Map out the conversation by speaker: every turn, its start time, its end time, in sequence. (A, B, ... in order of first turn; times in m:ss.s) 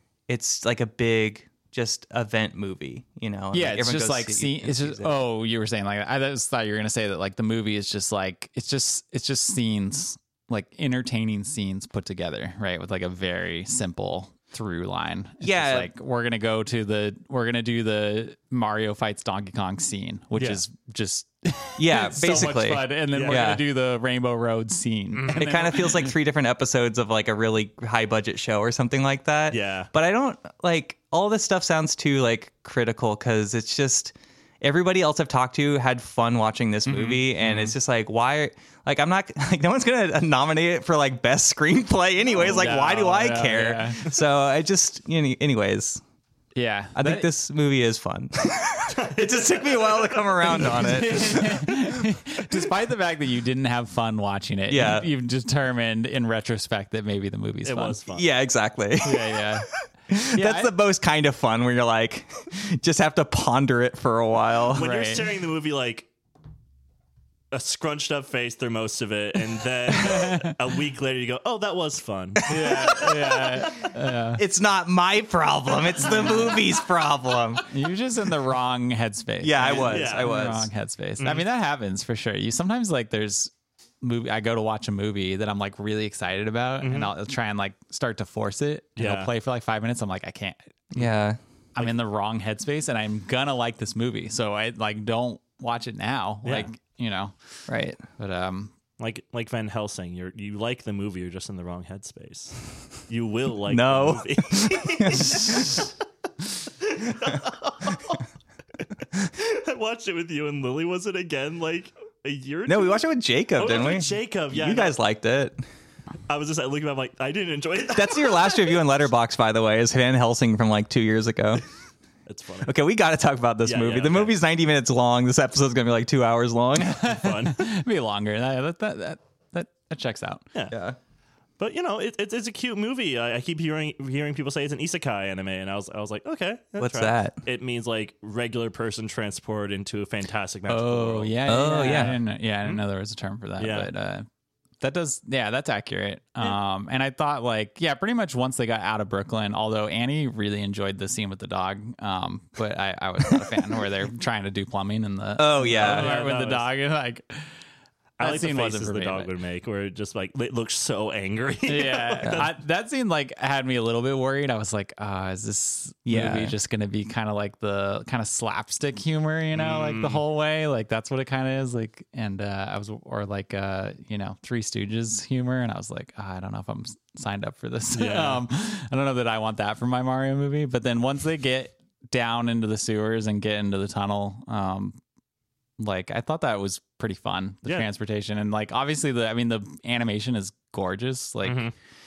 0:00.3-0:05.2 A
0:03.5-0:26.2 B
0:15.4-0:15.9 A
0:20.4-0:20.6 C
0:21.8-0:23.6 A
0:23.1-0:23.6 C
0:25.2-0:25.5 C
0:25.3-0:46.0 A
0:29.5-0:29.9 C
0:36.9-0:37.8 B
0:42.4-0:44.0 B
0:42.4-0:42.7 C
0:46.6-0:47.3 B
0:47.0-0:51.7 A
0:48.9-0:51.0 C
0:50.6-0:58.0 B
0:54.7-0:55.1 A
0:57.6-0:58.3 C
0:58.1-1:04.9 A
0:59.0-0:59.7 B
1:00.3-1:00.7 B
1:04.7-1:06.1 C
1:04.8-1:05.3 B
1:07.5-1:13.9 C
1:10.0-1:10.5 B
1:12.5-1:14.4 B
1:14.4-1:17.7 A
1:16.1-1:16.4 B
1:17.7-1:30.7 B
1:19.4-1:20.7 A
1:19.6-1:20.3 C
1:21.2-1:21.4 C
1:26.8-1:27.1 C
1:29.0-1:29.3 C
1:30.9-1:31.4 A
1:31.8-1:37.4 B
1:37.7-1:38.0 A
1:38.2-1:38.7 B
1:39.0-1:45.9 C
1:43.7-1:45.9 A
1:46.7-1:48.2 C
1:49.2-1:53.0 C
1:52.7-1:55.6 A
1:53.6-1:55.0 C
1:56.3-1:58.9 C
1:57.9-2:01.6 A
2:02.3-2:02.7 C
2:02.6-2:07.1 A
2:03.6-2:04.4 C
2:06.8-2:10.4 B
2:07.0-2:07.7 C
2:10.7-2:11.0 A
2:11.6-2:21.4 C
2:16.8-2:17.4 A
2:20.7-2:24.3 B
2:21.5-2:22.2 A
2:23.6-2:23.9 C
2:24.8-2:37.5 B
2:35.4-2:36.1 A
2:35.7-2:36.7 C
2:38.2-2:42.5 C
2:38.2-2:39.3 B
2:41.7-3:05.0 B
2:46.1-2:46.5 A
2:49.5-2:50.2 C
2:57.9-2:58.4 C
3:05.8-3:11.7 B
3:11.4-3:11.7 C